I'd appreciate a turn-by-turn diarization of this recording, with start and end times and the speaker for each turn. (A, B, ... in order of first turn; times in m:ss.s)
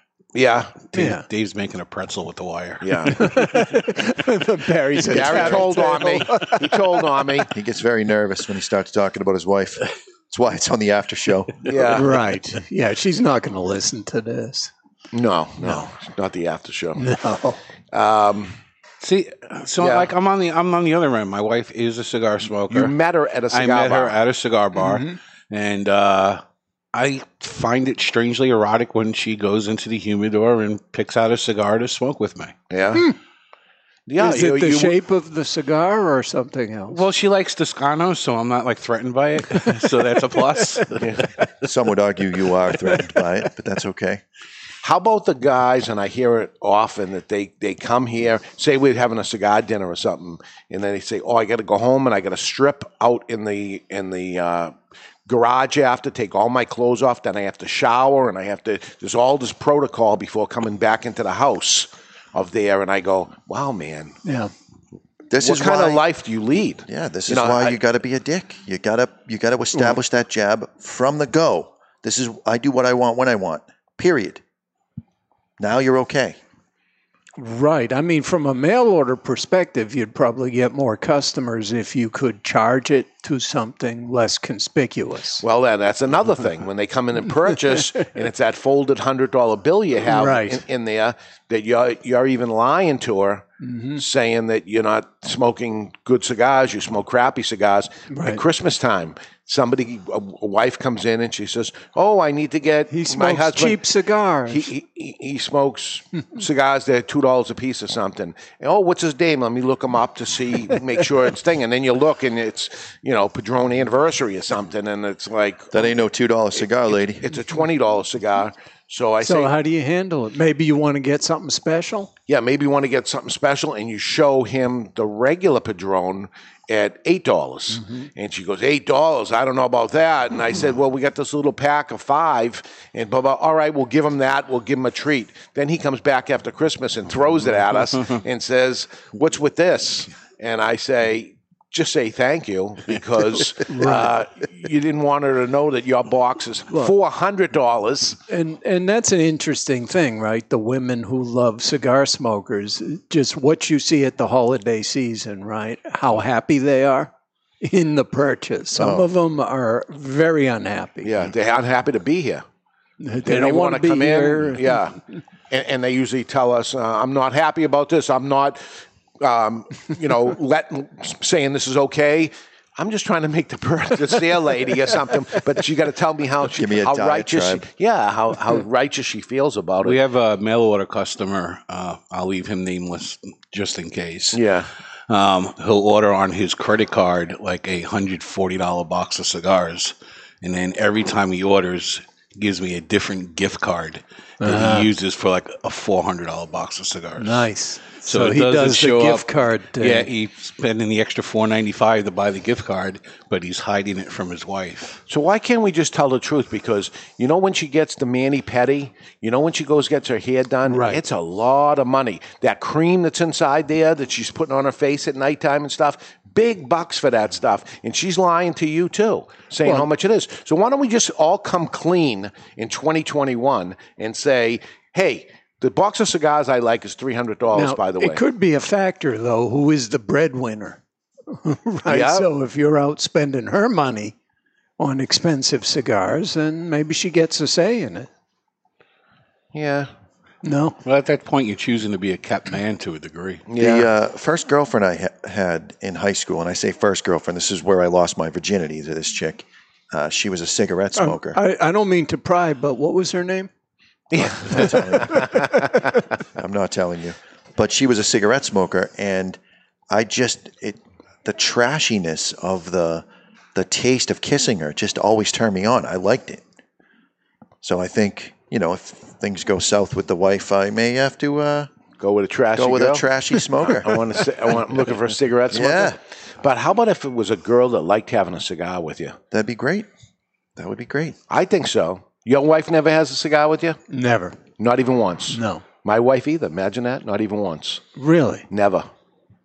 0:00.3-0:00.9 A
0:00.9-0:03.5 B
0:00.9-0:01.2 C
0:02.8-0:03.3 A
0:03.1-0:07.0 C
0:05.0-0:07.5 A
0:07.5-0:11.8 D
0:11.6-0:12.2 A
0:11.9-0:14.7 C
0:15.1-0:17.0 A
0:17.0-0:17.6 C
0:17.9-0:18.6 A
0:19.0-0:22.9 B
0:19.8-0:20.1 A
0:22.7-0:24.2 A
0:23.5-0:26.4 B
0:24.9-0:25.1 C
0:26.9-0:32.5 B
0:32.7-0:33.1 A
0:34.1-0:35.0 A
0:34.2-0:37.0 C
0:36.9-0:41.2 B
0:41.0-0:41.2 A
0:41.6-0:44.2 D
0:44.8-0:54.7 A
0:55.2-1:04.2 A
1:04.2-1:04.5 C
1:05.3-1:06.0 D
1:05.4-1:07.8 A
1:06.9-1:14.4 D
1:15.6-1:16.4 D
1:17.4-1:25.4 C
1:25.4-1:43.8 A
1:30.1-1:30.6 C
1:33.6-1:34.0 C
1:38.1-1:38.4 C
1:42.9-1:44.7 C
1:44.5-1:55.9 A
1:55.7-1:57.3 D
1:57.2-1:59.5 A
1:59.2-2:02.1 C
2:02.3-2:28.2 A
2:23.6-2:24.1 C
2:28.3-2:41.2 C
2:38.8-2:39.1 D
2:41.0-2:42.4 A
2:43.0-2:44.8 C
2:43.2-2:45.0 A
2:45.5-2:48.6 A
2:49.2-3:00.0 A
2:56.5-2:57.6 D
2:59.8-3:04.4 B
3:04.3-3:04.7 A
3:05.1-3:25.0 B
3:14.4-3:14.9 C
3:17.2-3:20.1 C
3:25.1-3:48.2 A
3:30.7-3:31.0 C
3:47.5-3:54.1 C
3:51.9-3:52.3 A
3:54.8-3:58.1 C
3:59.5-3:59.9 A
4:00.4-4:00.8 C
4:00.8-4:03.4 B
4:03.5-4:03.9 A
4:03.6-4:11.4 D
4:11.0-4:13.5 C
4:14.1-4:15.5 A
4:14.4-4:15.3 D
4:14.5-4:15.7 C
4:16.3-4:19.4 D
4:19.9-4:26.4 D
4:27.6-4:31.7 D
4:32.0-4:33.0 A
4:32.5-4:34.0 D
4:33.7-4:39.2 A
4:35.5-4:36.0 D
4:39.3-4:39.9 D
4:40.6-4:41.2 D
4:41.3-4:43.8 A
4:43.9-4:44.4 C
4:44.6-4:47.9 A
4:45.3-4:45.7 C
4:48.0-4:48.5 C
4:48.5-4:48.9 A